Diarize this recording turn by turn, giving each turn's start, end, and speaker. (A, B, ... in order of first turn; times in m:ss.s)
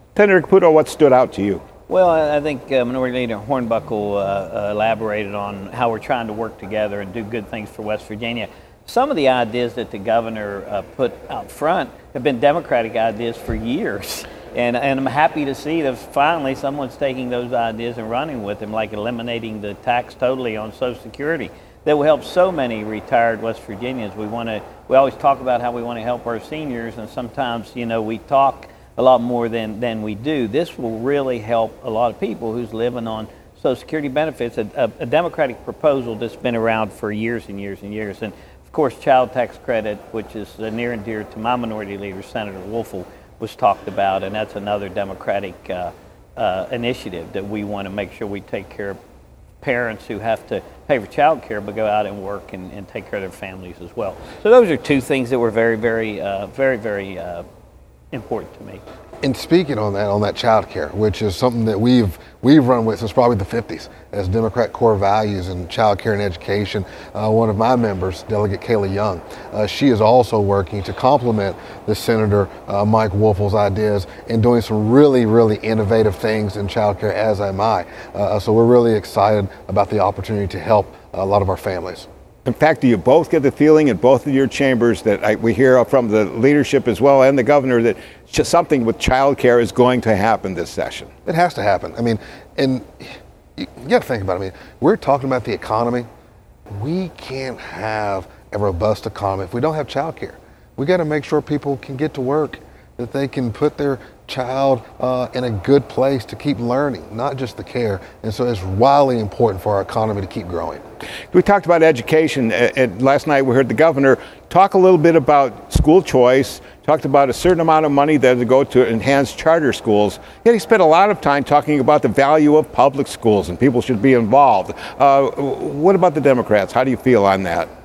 0:00.2-0:01.6 A
0:01.9-0:49.0 B
0:49.6-0:57.4 B
0:58.1-0:58.8 B
0:59.2-1:22.1 C
1:22.4-1:31.1 A
1:31.3-1:36.1 C
1:36.7-1:50.8 C
1:51.3-2:07.7 A